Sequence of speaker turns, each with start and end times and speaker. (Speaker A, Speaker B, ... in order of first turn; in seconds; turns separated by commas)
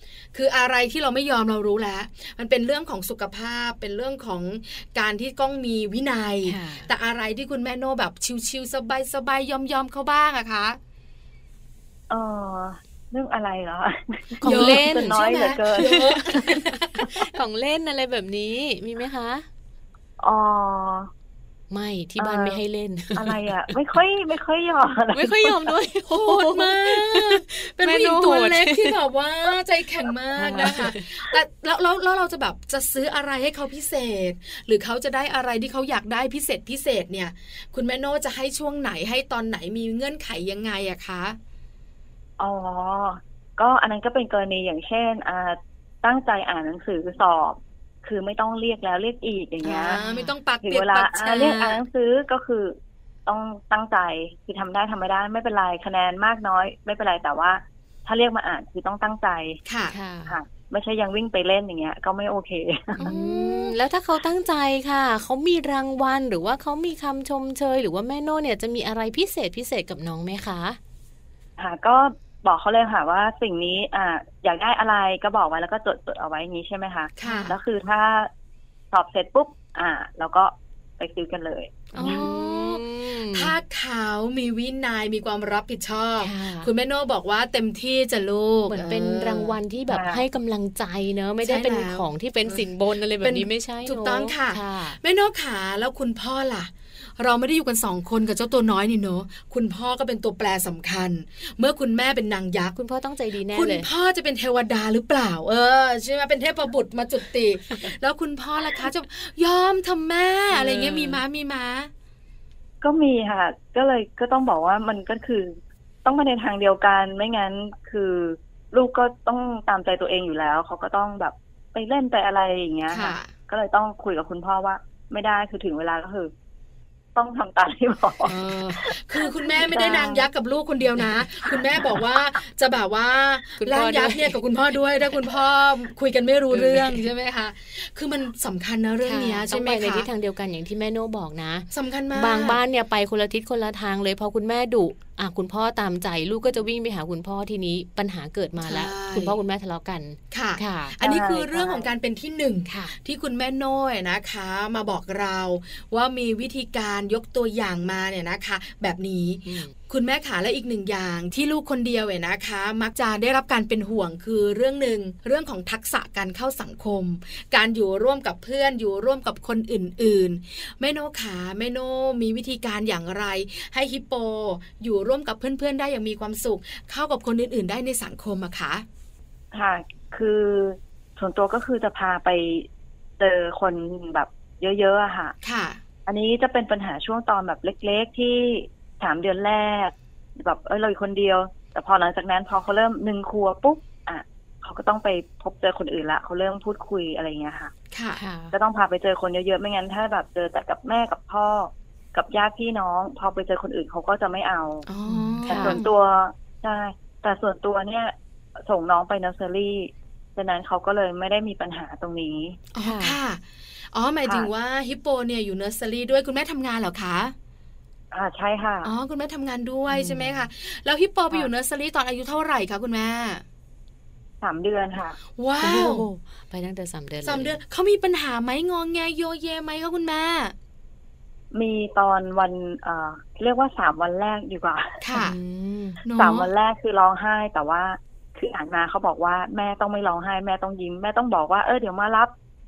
Speaker A: 0.3-10.8, Speaker B: 6.5-6.9, Speaker C: 12.1-16.4, Speaker B: 14.4-15.2, Speaker A: 14.4-17.1, Speaker B: 15.8-19.5, Speaker C: 20.2-21.1, Speaker B: 21.7-23.5, Speaker C: 22.2-22.6, Speaker C: 23.1-25.7, Speaker B: 25.1-28.9, Speaker A: 26.1-41.4, Speaker B: 30.4-31.1, Speaker C: 42.4-50.0, Speaker A: 49.6-51.8, Speaker B: 49.9-50.3, Speaker C: 50.6-59.6, Speaker A: 59.6-59.9, Speaker B: 59.9-60.4, Speaker C: 60.3-63.1, Speaker A: 63.0-63.8, Speaker B: 63.0-70.8, Speaker C: 71.6-78.3, Speaker A: 77.2-77.5, Speaker C: 78.9-82.2, Speaker A: 81.9-89.5, Speaker B: 82.0-83.5, Speaker B: 86.2-86.7, Speaker B: 88.7-95.0, Speaker C: 89.9-90.2, Speaker A: 91.4-92.7, Speaker A: 93.2-102.7, Speaker B: 102.7-103.9, Speaker A: 103.5-111.9, Speaker B: 110.5-111.2, Speaker C: 112.8-126.3, Speaker A: 122.9-123.3, Speaker C: 127.1-130.3, Speaker A: 128.2-140.1, Speaker B: 133.6-134.4, Speaker B: 136.5-137.0, Speaker B: 139.0-151.0, Speaker A: 141.7-142.6, Speaker A: 148.6-149.4, Speaker A: 150.3-178.8, Speaker C: 151.0-151.9, Speaker B: 152.7-152.9, Speaker B: 159.4-159.7, Speaker C: 179.5-182.7, Speaker C: 183.2-185.3, Speaker A: 185.4-185.8, Speaker C: 186.1-197.7, Speaker A: 197.9-198.2, Speaker B: 198.2-198.5, Speaker C: 198.5-204.9, Speaker A: 204.9-205.9, Speaker B: 205.1-205.8, Speaker C: 205.5-212.6, Speaker A: 212.7-213.4, Speaker B: 212.8-213.2, Speaker A: 213.9-217.3, Speaker C: 214.2-214.5, Speaker C: 218.1-218.9, Speaker A: 218.8-223.4, Speaker B: 219.9-220.5, Speaker C: 224.4-225.2, Speaker A: 225.4-226.1, Speaker B: 225.6-227.6, Speaker A: 227.2-230.5, Speaker C: 231.5-235.0, Speaker A: 235.0-235.4, Speaker B: 235.1-236.0, Speaker A: 236.0-236.5, Speaker C: 236.2-242.3